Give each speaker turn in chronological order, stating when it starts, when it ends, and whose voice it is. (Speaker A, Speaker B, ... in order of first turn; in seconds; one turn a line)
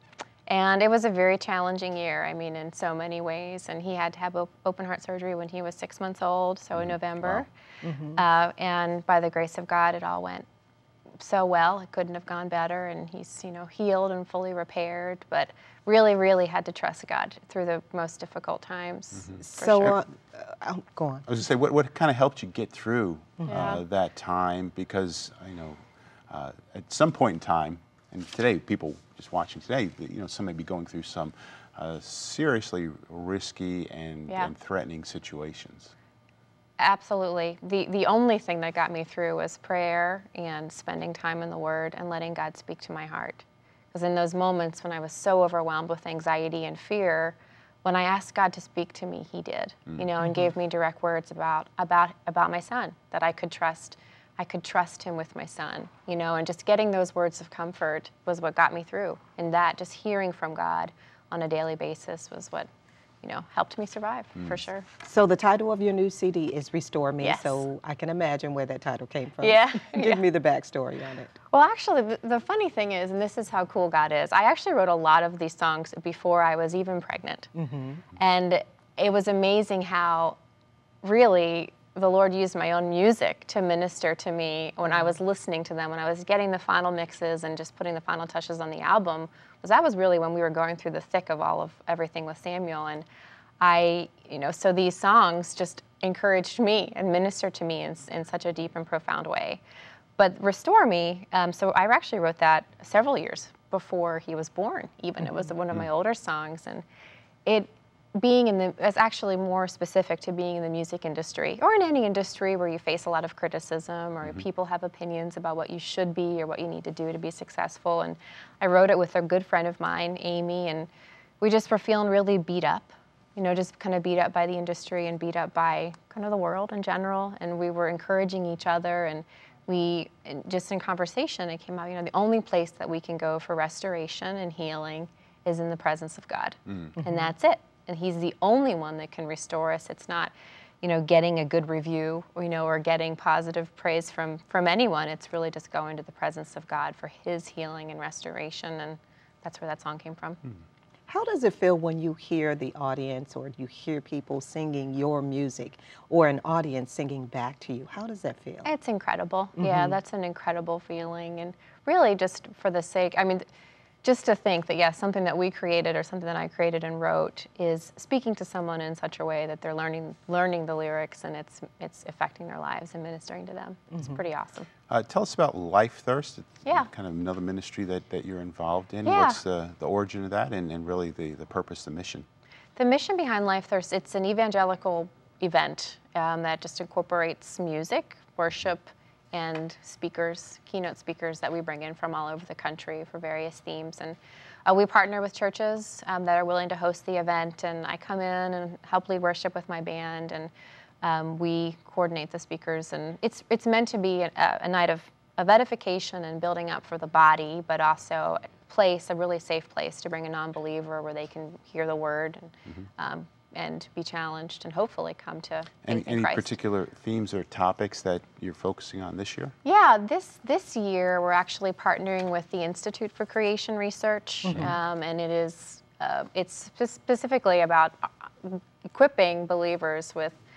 Speaker A: 0.5-7.5
Speaker B: 6.8-7.5
Speaker C: 7.8-8.2
Speaker A: 8.2-10.5
Speaker A: 11.2-20.0
Speaker B: 19.1-20.0
Speaker C: 19.4-21.3
Speaker B: 21.3-35.9
Speaker C: 23.4-23.8
Speaker A: 23.4-23.8
Speaker A: 36.8-62.7
Speaker A: 63.2-64.9
Speaker C: 65.0-71.3
Speaker A: 67.2-67.6
Speaker A: 69.4-70.2
Speaker A: 71.5-77.5
Speaker C: 77.5-78.0
Speaker A: 78.2-80.4
Speaker A: 81.0-93.0
Speaker C: 84.9-85.1
Speaker A: 93.6-99.6
Speaker A: 100.2-106.8
Speaker A: 107.5-120.9
Speaker A: 121.4-150.4
Speaker C: 137.0-137.3
Speaker C: 151.1-158.7
Speaker A: 158.6-163.4
Speaker C: 159.6-160.0
Speaker A: 164.0-174.7
Speaker C: 173.9-174.2
Speaker B: 174.9-182.3
Speaker A: 179.1-179.4
Speaker A: 182.8-200.5
Speaker A: 201.0-216.5
Speaker B: 215.8-219.5
Speaker A: 219.6-230.4
Speaker C: 224.5-224.8